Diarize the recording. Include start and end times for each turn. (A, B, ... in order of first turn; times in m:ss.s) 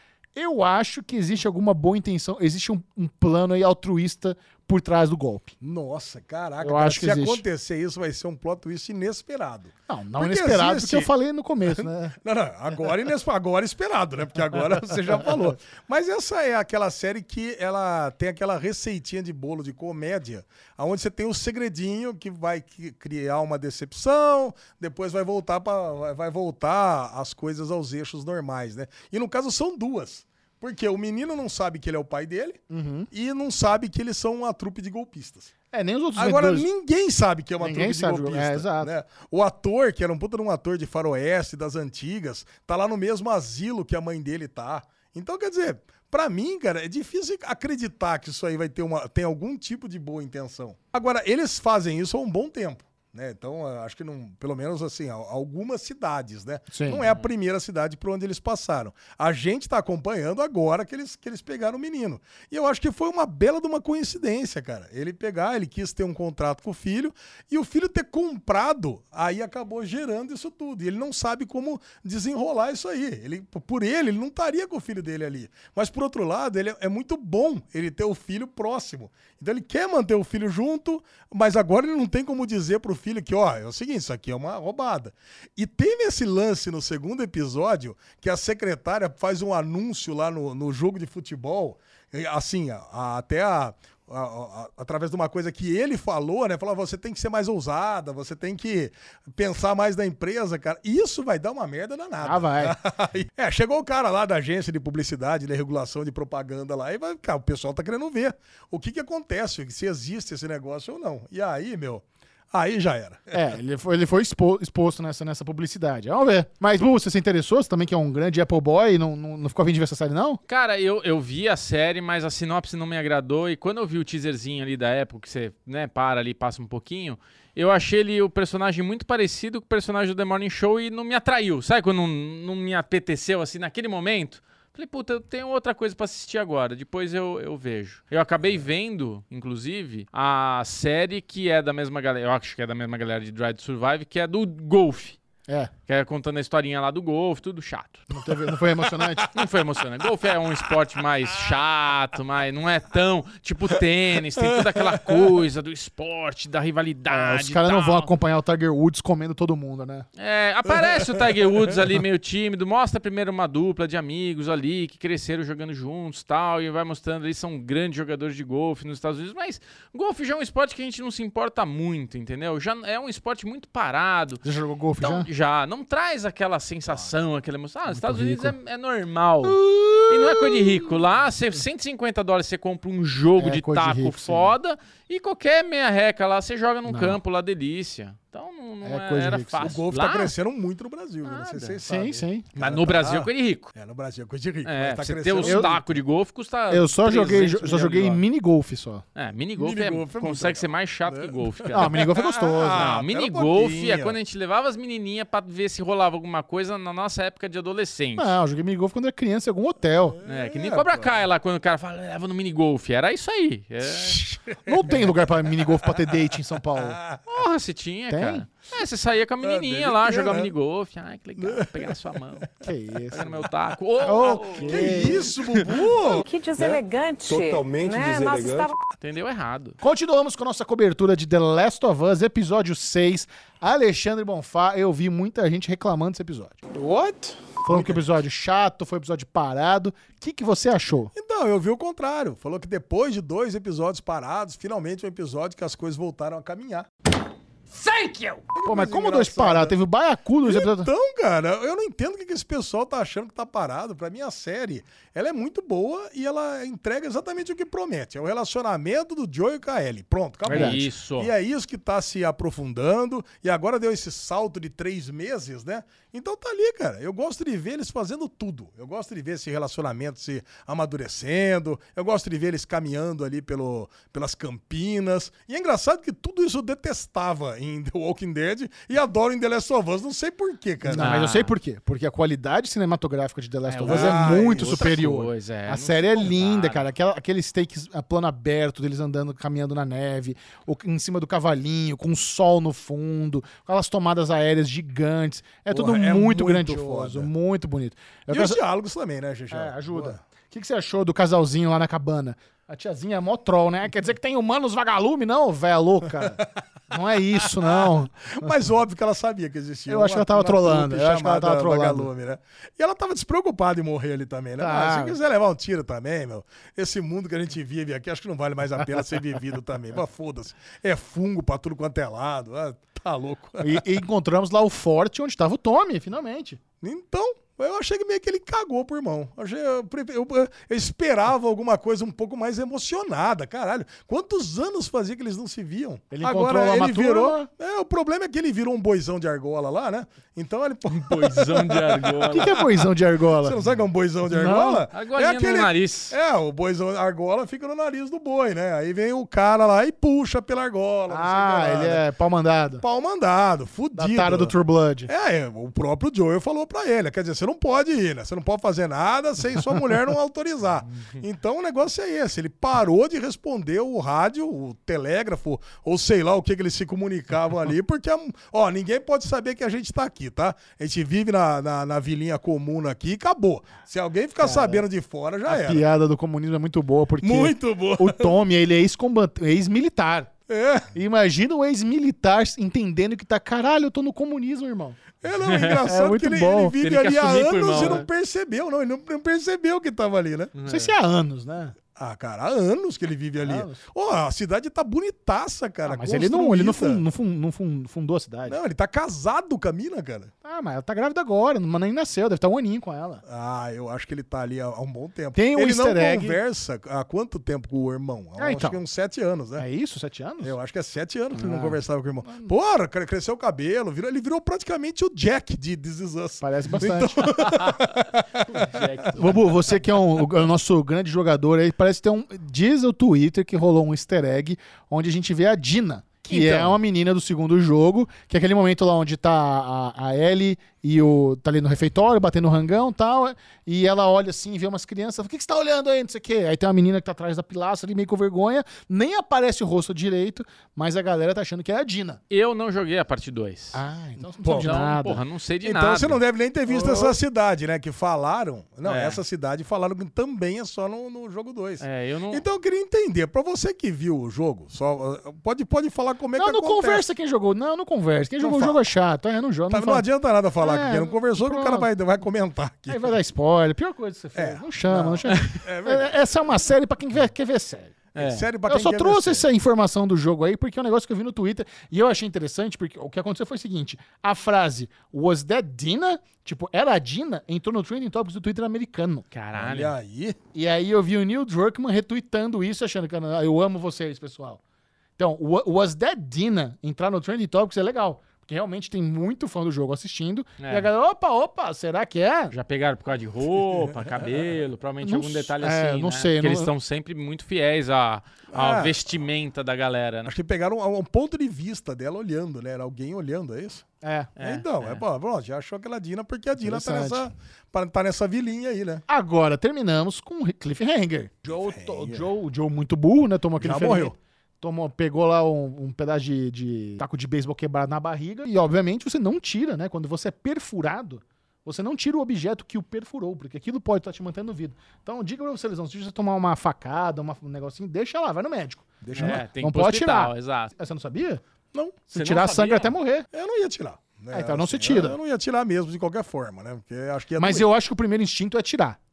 0:00.3-0:05.5 A
0:05.6-0:11.1 B
0:06.6-0:07.4 A
0:09.9-0:12.2 A
0:11.7-0:32.6 B
0:32.7-0:33.1 A
0:33.1-0:35.5 B
0:35.7-0:36.7 A
0:36.2-1:53.4 B
0:37.6-0:38.9 A
0:56.7-0:57.0 A
1:42.2-1:42.8 A
1:53.3-2:00.4 A
2:00.5-2:25.2 C
2:25.5-2:25.7 A
2:25.9-2:28.1 C
2:28.1-2:29.3 A
2:29.3-2:38.1 C
2:37.1-2:40.1 A
2:40.2-2:54.4 C
2:54.4-2:55.3 A
2:55.0-3:10.3 C
2:57.9-2:58.6 A
2:59.4-3:00.9 A
3:03.4-3:04.5 A
3:06.9-3:07.2 A
3:08.8-3:09.8 A
3:09.6-3:15.8 B
3:11.2-3:11.8 C
3:11.8-3:12.5 A
3:12.5-3:13.7 C
3:14.6-3:18.2 C
3:15.4-3:15.8 A
3:16.7-3:19.0 A
3:19.1-3:22.0 C
3:19.6-3:24.2 B
3:21.7-3:22.9 A
3:22.7-3:28.4 C
3:28.2-3:30.2 A
3:30.2-3:31.1 B
3:30.2-3:34.2 C
3:33.8-3:35.1 B
3:34.6-3:37.0 A
3:36.8-3:37.2 B
3:37.2-3:45.0 C
3:38.1-3:38.5 A
3:39.4-3:40.5 B
3:41.4-3:42.1 B
3:42.6-3:43.3 A
3:44.0-3:45.3 A
3:44.5-3:46.2 B
3:45.9-3:48.7 D
3:46.6-3:48.7 E
3:49.0-3:49.8 C
3:49.8-3:56.6 A
3:56.7-3:57.4 E
3:57.6-4:01.1 A
3:57.7-3:58.0 B
4:01.1-4:06.9 B
4:08.4-4:09.8 B
4:08.6-4:10.9 A
4:10.4-4:41.1 B
4:20.4-4:20.8 A
4:20.5-4:21.3 C
4:40.8-4:58.6 A
4:41.0-4:41.5 C
4:43.7-4:46.9 C
4:43.8-4:45.0 B
4:55.7-4:57.3 B
4:58.3-5:00.2 B
4:59.5-5:08.6 A
5:07.5-5:23.8 B
5:09.9-5:12.1 A
5:14.6-5:15.2 A
5:23.6-5:26.6 A
5:26.8-5:42.4 B
5:36.1-5:37.5 A
5:40.9-5:42.7 C
5:42.3-5:43.6 A
5:43.4-5:52.0 B
5:44.2-5:44.8 A
5:44.9-5:46.2 C
5:51.1-5:52.8 A
5:52.8-5:54.5 B
5:53.9-5:55.1 A
5:55.1-6:15.8 B
6:14.4-6:14.8 A
6:15.4-6:20.3 A
6:17.2-6:18.4 B
6:20.5-6:20.9 B
6:20.9-6:25.0 A
6:25.2-6:30.5 B
6:25.3-6:25.9 C
6:25.8-6:27.0 A
6:26.8-6:28.0 C
6:27.7-6:28.0 A
6:30.5-6:30.9 C
6:30.6-6:31.8 A
6:32.0-6:37.0 B
6:33.4-6:33.8 A
6:35.8-6:38.6 A
6:38.4-6:40.3 B
6:40.4-6:43.2 A
6:43.2-6:49.6 B
6:45.4-6:46.4 A
6:48.4-6:48.8 A
6:49.6-6:50.5 A
6:50.4-6:58.6 B
6:51.3-6:52.5 A
6:56.4-6:57.5 A
6:58.4-6:59.4 C
6:59.1-7:22.2 A
7:06.3-7:06.8 C
7:22.3-7:23.8 C
7:23.7-7:25.2 A
7:24.4-7:24.7 B
7:24.6-7:26.2 C
7:25.6-7:37.0 B
7:26.7-7:27.2 A
7:28.8-7:29.2 C
7:31.8-7:32.4 C
7:36.4-7:40.0 A
7:38.4-7:38.8 B
7:39.7-7:43.1 B
7:40.6-7:41.9 A
7:42.9-7:59.3 A
7:44.3-7:46.2 B
7:48.1-7:48.5 C
7:48.2-7:49.5 B
7:59.3-7:59.9 C
7:59.5-8:00.4 B
8:00.5-8:04.6 A
8:05.2-8:12.5 A
8:10.6-8:10.9 C
8:12.5-8:20.3 C
8:15.0-8:16.7 A
8:18.5-8:19.0 B
8:20.3-8:23.9 B
8:24.0-8:24.3 A
8:24.4-8:25.0 C
8:24.4-8:29.0 B
8:26.6-8:27.3 A
8:29.1-8:51.4 A
8:31.5-8:32.2 B
8:33.6-8:34.1 B
8:49.0-8:49.4 B
8:49.2-8:50.7 C
8:51.7-8:52.0 B
8:52.1-8:53.3 A
8:52.1-8:52.9 C
8:53.3-8:57.7 B
8:54.3-8:55.2 A
8:57.4-8:59.0 A